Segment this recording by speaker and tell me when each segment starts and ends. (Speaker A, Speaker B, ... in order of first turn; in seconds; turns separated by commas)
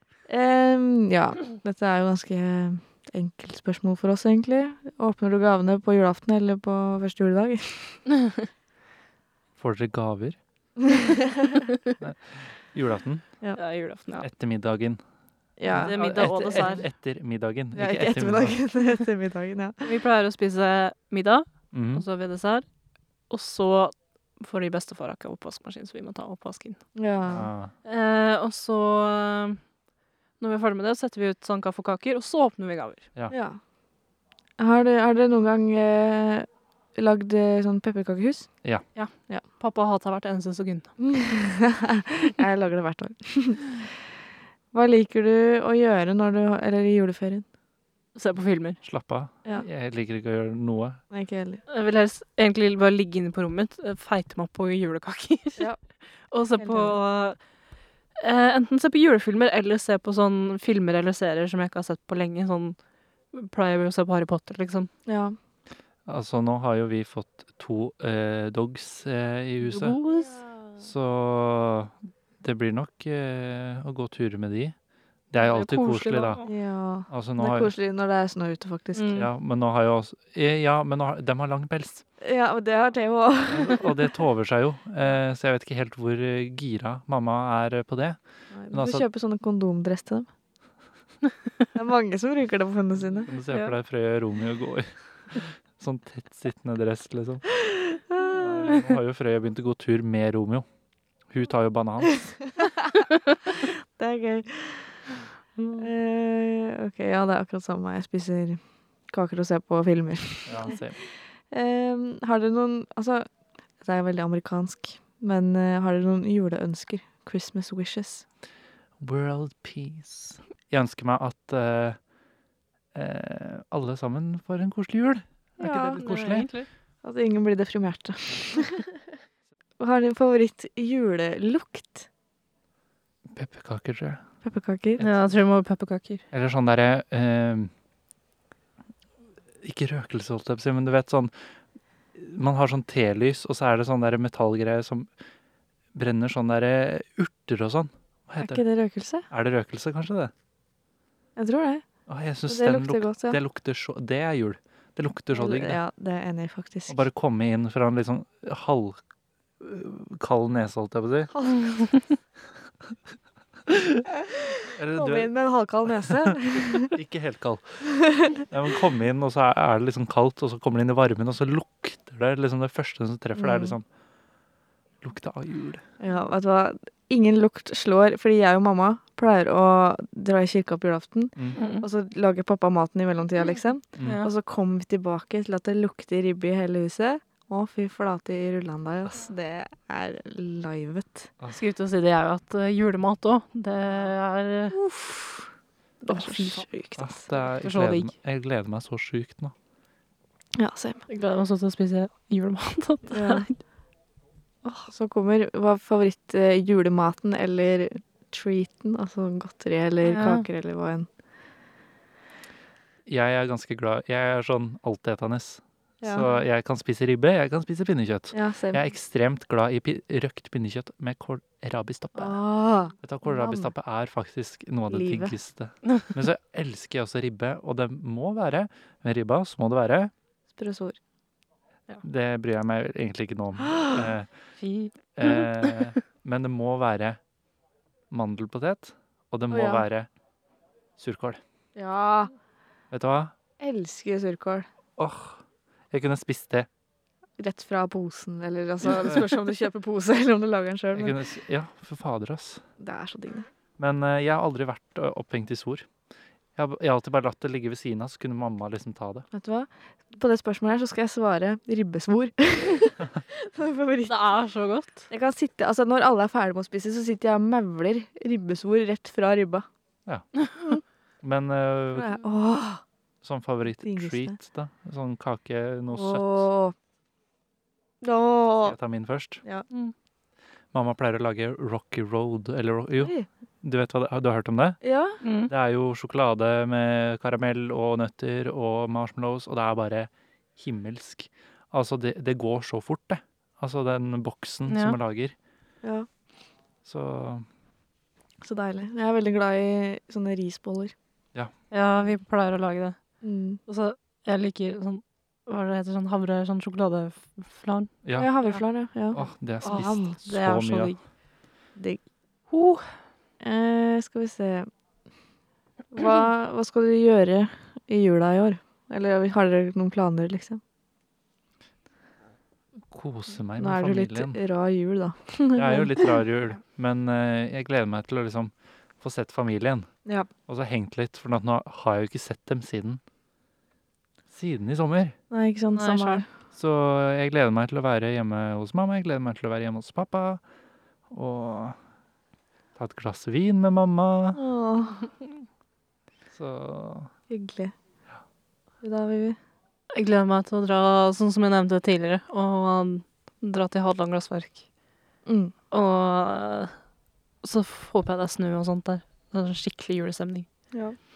Speaker A: 0.3-8.0, Speaker B: 9.6-10.4, Speaker A: 10.8-11.7, Speaker B: 12.0-13.2, Speaker C: 13.6-14.3, Speaker B: 14.2-15.0, Speaker A: 15.6-16.8, Speaker B: 15.7-18.6, Speaker C: 15.8-16.8, Speaker A: 17.7-19.9, Speaker C: 19.8-22.6, Speaker B: 21.7-22.0, Speaker C: 23.3-26.8, Speaker A: 26.9-27.5, Speaker B: 27.3-27.7, Speaker C: 27.8-29.6, Speaker C: 30.4-33.1, Speaker A: 33.3-33.6, Speaker A: 34.6-38.5, Speaker C: 38.9-41.0, Speaker A: 41.0-43.8, Speaker A: 44.7-47.4, Speaker C: 48.1-48.8, Speaker B: 48.8-51.0, Speaker A: 51.1-51.6, Speaker C: 51.7-55.7, Speaker C: 56.3-57.4, Speaker A: 56.6-57.0, Speaker C: 58.2-62.8, Speaker C: 63.3-64.9, Speaker A: 65.0-65.3, Speaker B: 66.0-70.0, Speaker C: 69.7-70.4, Speaker A: 69.7-70.8, Speaker B: 70.8-74.7, Speaker B: 75.3-76.4, Speaker C: 75.4-76.5, Speaker A: 76.4-79.2, Speaker B: 77.1-77.7, Speaker C: 78.9-79.3, Speaker B: 79.1-82.0, Speaker A: 82.2-84.1, Speaker B: 83.5-88.2, Speaker A: 88.5-90.3, Speaker B: 88.7-89.0, Speaker A: 91.7-93.3, Speaker B: 93.2-97.5, Speaker A: 97.6-98.8, Speaker B: 98.3-100.7, Speaker B: 101.3-102.3, Speaker A: 102.6-102.9, Speaker A: 103.5-105.0, Speaker A: 105.8-110.8, Speaker B: 110.5-111.0, Speaker A: 111.5-113.3, Speaker A: 113.8-118.2, Speaker B: 119.0-122.0, Speaker B: 122.9-126.5, Speaker A: 125.6-126.0, Speaker C: 125.9-126.7, Speaker A: 127.0-129.0, Speaker A: 129.8-132.1, Speaker B: 133.3-134.2, Speaker A: 134.4-135.0, Speaker C: 135.0-136.2, Speaker B: 136.3-137.7, Speaker B: 139.6-141.3, Speaker B: 142.2-145.1, Speaker B: 145.9-148.6, Speaker A: 148.4-149.3, Speaker B: 149.3-150.3, Speaker A: 151.3-151.8, Speaker B: 152.1-155.8, Speaker A: 152.5-153.4, Speaker A: 155.3-157.0, Speaker B: 156.9-159.0, Speaker B: 159.6-161.3, Speaker A: 161.3-161.8, Speaker C: 161.8-162.0, Speaker B: 163.7-164.0, Speaker A: 164.3-166.9, Speaker B: 164.6-165.3, Speaker B: 166.0-173.8, Speaker A: 167.8-168.4, Speaker A: 173.3-173.8, Speaker B: 175.0-175.8, Speaker A: 176.0-191.3, Speaker C: 181.5-181.9, Speaker C: 184.0-184.3, Speaker C: 191.6-194.8, Speaker A: 194.7-195.5, Speaker A: 196.0-197.2, Speaker C: 196.1-196.7, Speaker B: 197.0-199.5, Speaker C: 197.6-198.1, Speaker A: 200.6-201.1, Speaker C: 201.1-203.6, Speaker A: 203.1-203.4, Speaker A: 204.6-211.1, Speaker C: 210.0-210.4, Speaker B: 213.1-222.4, Speaker A: 216.0-216.3, Speaker A: 218.3-218.8, Speaker A: 222.1-223.7, Speaker B: 223.0-230.1, Speaker A: 224.9-225.3, Speaker A: 230.5-231.0, Speaker B: 232.0-234.3, Speaker A: 233.7-234.1, Speaker C: 234.6-235.9, Speaker B: 235.1-237.2, Speaker B: 238.1-240.1, Speaker A: 239.5-239.9, Speaker B: 241.0-241.4, Speaker A: 241.7-242.3, Speaker B: 242.9-243.3, Speaker A: 243.6-244.7, Speaker B: 245.0-246.7, Speaker A: 247.4-251.2, Speaker B: 249.0-249.2, Speaker B: 250.9-252.6, Speaker A: 252.8-253.5, Speaker B: 253.8-255.9, Speaker B: 256.6-259.2, Speaker A: 259.3-264.1, Speaker C: 264.1-265.1, Speaker A: 265.1-269.6, Speaker A: 270.6-270.8, Speaker B: 271.2-272.2, Speaker A: 272.0-272.8, Speaker B: 273.2-276.5, Speaker A: 273.8-274.4, Speaker A: 275.9-276.7, Speaker A: 278.0-278.8, Speaker B: 278.6-279.4, Speaker B: 280.7-284.8, Speaker A: 283.0-283.3, Speaker A: 284.8-285.2, Speaker C: 285.2-285.5, Speaker B: 285.5-295.3, Speaker C: 294.7-295.0, Speaker A: 295.8-296.1, Speaker B: 296.8-297.4, Speaker A: 298.4-300.9, Speaker C: 301.7-303.0, Speaker A: 303.2-303.6, Speaker C: 303.6-308.6, Speaker B: 308.0-308.3, Speaker A: 308.1-310.2, Speaker B: 309.1-310.9, Speaker C: 309.2-311.0, Speaker A: 311.8-312.0, Speaker C: 312.5-312.9, Speaker A: 313.4-314.7, Speaker A: 315.9-320.6, Speaker B: 322.9-324.4, Speaker A: 323.6-326.1, Speaker B: 325.6-329.9, Speaker B: 330.5-333.0, Speaker B: 334.3-335.1, Speaker A: 335.3-336.3, Speaker C: 335.7-336.2, Speaker B: 336.5-340.4, Speaker B: 341.1-341.8, Speaker B: 342.8-344.4, Speaker A: 344.3-345.1, Speaker B: 346.3-347.1, Speaker A: 347.3-347.7, Speaker A: 348.8-349.4, Speaker C: 349.9-354.6, Speaker A: 355.2-355.5, Speaker C: 355.7-356.7, Speaker C: 357.4-360.5, Speaker A: 360.7-361.0